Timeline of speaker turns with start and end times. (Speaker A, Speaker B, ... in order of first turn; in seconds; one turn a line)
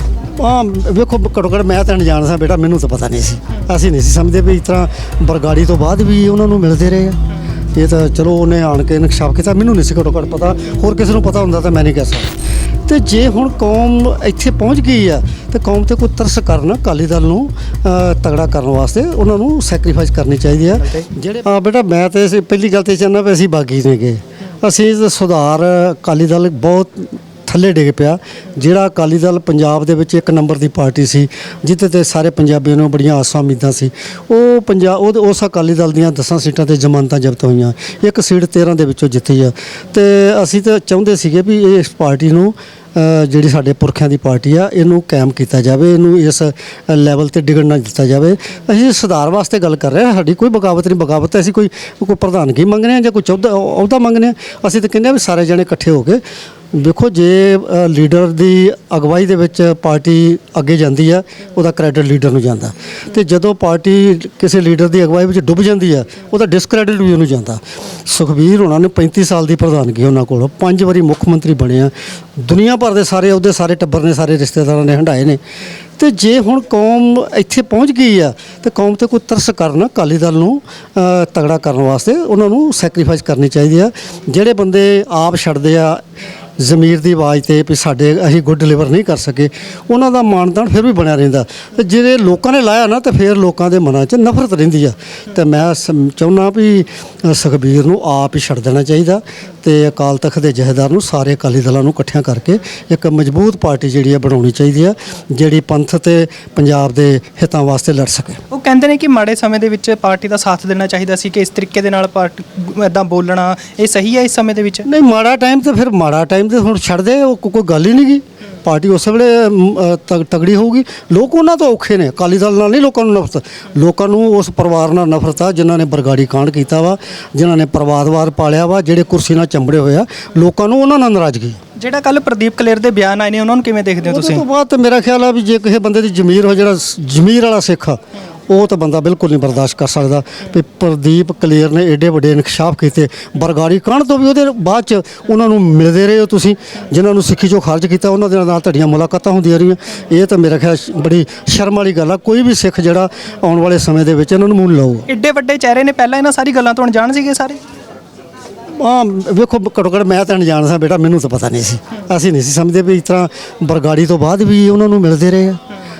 Speaker A: 0.4-7.2
Speaker A: 7.8-12.3
Speaker A: 12.9-56.2
Speaker A: 56.7-75.4
Speaker A: 76.0-86.0
Speaker A: 86.6-108.4
Speaker B: 108.5-114.9
Speaker A: 114.9-131.6
Speaker B: 131.8-134.4
Speaker A: 134.1-155.1
Speaker B: 155.1-157.6
Speaker A: 158.8-165.6